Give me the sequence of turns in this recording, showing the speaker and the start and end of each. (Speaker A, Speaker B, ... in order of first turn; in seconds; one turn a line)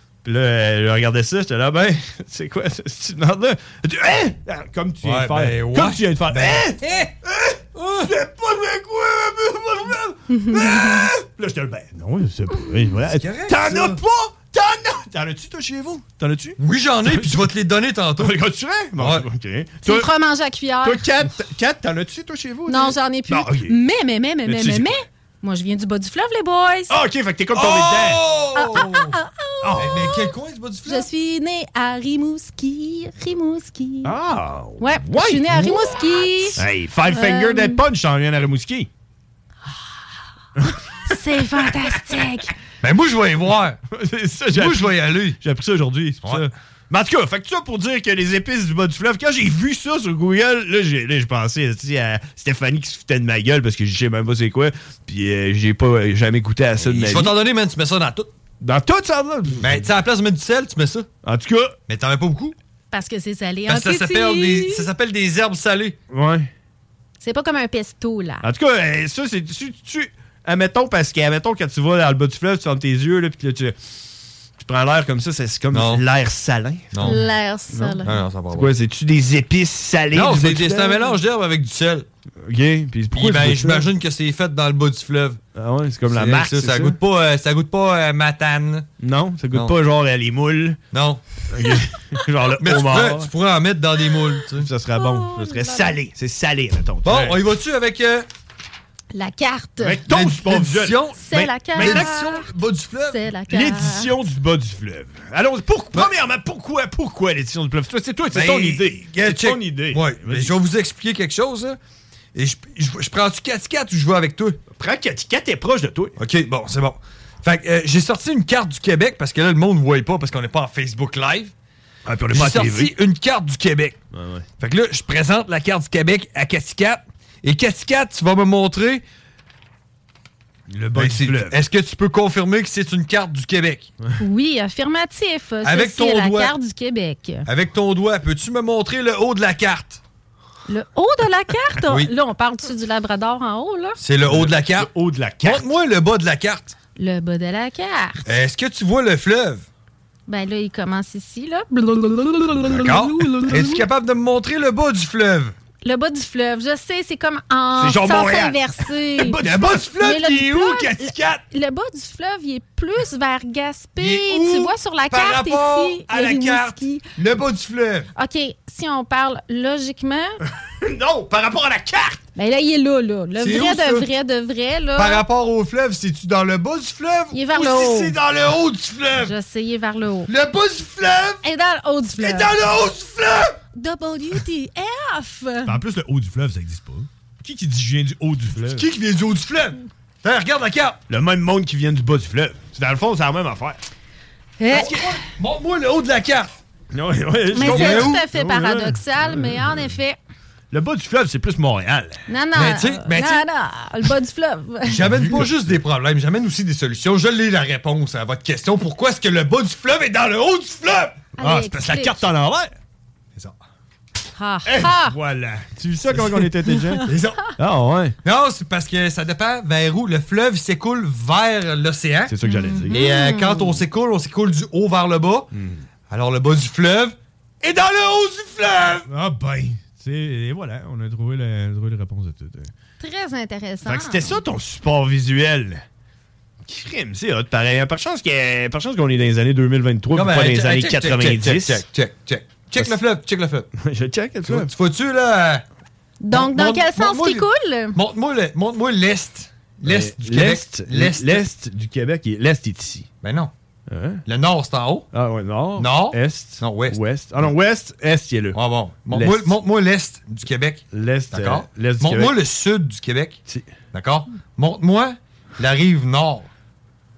Speaker A: 0.2-17.4
Speaker B: 5.0-7.1
Speaker B: 7.8-8.1
Speaker C: 10.3-11.1
Speaker B: 13.1-14.0
Speaker B: 16.6-18.4
Speaker A: 18.2-20.1
Speaker B: 19.0-19.2
Speaker C: 19.9-21.1
Speaker A: 20.8-23.8
Speaker C: 22.7-26.9
Speaker A: 24.4-25.0
Speaker A: 26.9-28.2
Speaker B: 27.6-29.2
Speaker C: 28.6-30.3
Speaker A: 29.6-30.1
Speaker B: 29.8-31.1
Speaker C: 30.9-34.1
Speaker A: 34.0-36.0
Speaker C: 34.8-37.8
Speaker A: 36.5-38.9
Speaker A: 40.6-41.1
Speaker C: 41.0-42.5
Speaker B: 42.8-43.8
Speaker A: 43.9-57.3
Speaker B: 44.5-45.4
Speaker B: 56.8-58.3
Speaker A: 58.6-59.9
Speaker B: 59.6-61.1
Speaker A: 61.2-61.8
Speaker B: 61.9-62.6
Speaker C: 62.9-64.9
Speaker B: 63.7-66.0
Speaker A: 66.1-66.5
Speaker C: 67.2-68.5
Speaker A: 68.4-73.8
Speaker A: 74.6-78.0
Speaker B: 75.7-76.0
Speaker B: 76.9-77.2
Speaker C: 77.0-78.2
Speaker B: 78.0-78.7
Speaker A: 78.5-81.2
Speaker B: 80.1-82.1
Speaker A: 82.4-83.9
Speaker B: 83.1-85.4
Speaker A: 85.5-87.0
Speaker B: 86.1-88.9
Speaker A: 89.0-90.8
Speaker B: 90.9-91.2
Speaker A: 91.5-93.3
Speaker B: 92.6-94.7
Speaker A: 94.6-97.4
Speaker C: 95.0-95.9
Speaker B: 97.0-98.3
Speaker C: 99.1-100.0
Speaker A: 99.8-102.1
Speaker B: 100.1-103.2
Speaker C: 101.2-102.5
Speaker C: 103.1-104.1
Speaker A: 103.5-110.5
Speaker B: 108.3-111.8
Speaker B: 112.3-114.6
Speaker A: 114.8-116.2
Speaker B: 116.2-121.5
Speaker A: 122.1-122.9
Speaker B: 122.3-124.0
Speaker A: 124.1-124.5
Speaker B: 124.6-129.0
Speaker A: 130.7-131.6
Speaker B: 130.9-133.9
Speaker C: 134.2-137.5
Speaker B: 135.6-136.5
Speaker B: 137.5-140.0
Speaker C: 140.7-144.0
Speaker B: 141.9-142.1
Speaker B: 144.0-144.9
Speaker A: 144.3-145.7
Speaker B: 145.4-146.8
Speaker C: 147.0-148.2
Speaker B: 148.3-149.7
Speaker C: 150.3-153.0
Speaker A: 152.5-153.6
Speaker B: 152.7-155.6
Speaker C: 153.5-153.8
Speaker C: 155.8-159.4
Speaker A: 157.8-158.6
Speaker A: 159.2-159.9
Speaker B: 159.4-161.4
Speaker C: 159.9-167.0
Speaker B: 164.0-168.1
Speaker C: 168.2-170.4
Speaker A: 170.7-172.2
Speaker C: 172.4-175.2
Speaker B: 173.4-174.1
Speaker B: 175.0-179.3
Speaker C: 177.3-178.2
Speaker C: 179.2-180.3
Speaker B: 180.3-181.4
Speaker C: 181.4-182.5
Speaker B: 182.2-183.6
Speaker C: 183.8-185.8
Speaker A: 185.7-188.8
Speaker B: 188.6-191.0
Speaker A: 191.1-193.8
Speaker C: 194.6-195.1
Speaker B: 194.7-196.5
Speaker A: 196.9-199.9
Speaker C: 197.5-200.2
Speaker B: 197.6-198.2
Speaker A: 200.7-202.2
Speaker C: 202.3-205.0
Speaker B: 202.5-203.5
Speaker B: 204.9-211.3
Speaker A: 205.0-205.5
Speaker C: 211.4-212.2
Speaker A: 211.4-212.8
Speaker C: 214.4-215.2
Speaker A: 214.7-217.1
Speaker B: 216.1-216.4
Speaker C: 216.8-217.1
Speaker B: 217.1-217.5
Speaker A: 217.6-218.2
Speaker B: 218.2-222.3
Speaker A: 222.3-223.0
Speaker C: 222.4-223.8
Speaker B: 222.9-225.5
Speaker A: 225.5-225.8
Speaker B: 226.1-229.1
Speaker A: 229.1-232.7
Speaker C: 233.0-234.4
Speaker A: 233.8-235.8
Speaker A: 236.7-241.8
Speaker B: 240.1-243.7
Speaker A: 243.8-244.7
Speaker B: 244.5-245.6
Speaker C: 246.2-248.0
Speaker B: 246.3-251.5
Speaker A: 249.8-253.1
Speaker B: 253.2-253.5
Speaker A: 253.9-254.2
Speaker B: 254.3-255.1
Speaker A: 255.1-258.6
Speaker B: 255.8-257.0
Speaker B: 258.5-266.5
Speaker A: 259.1-259.6
Speaker A: 260.9-262.3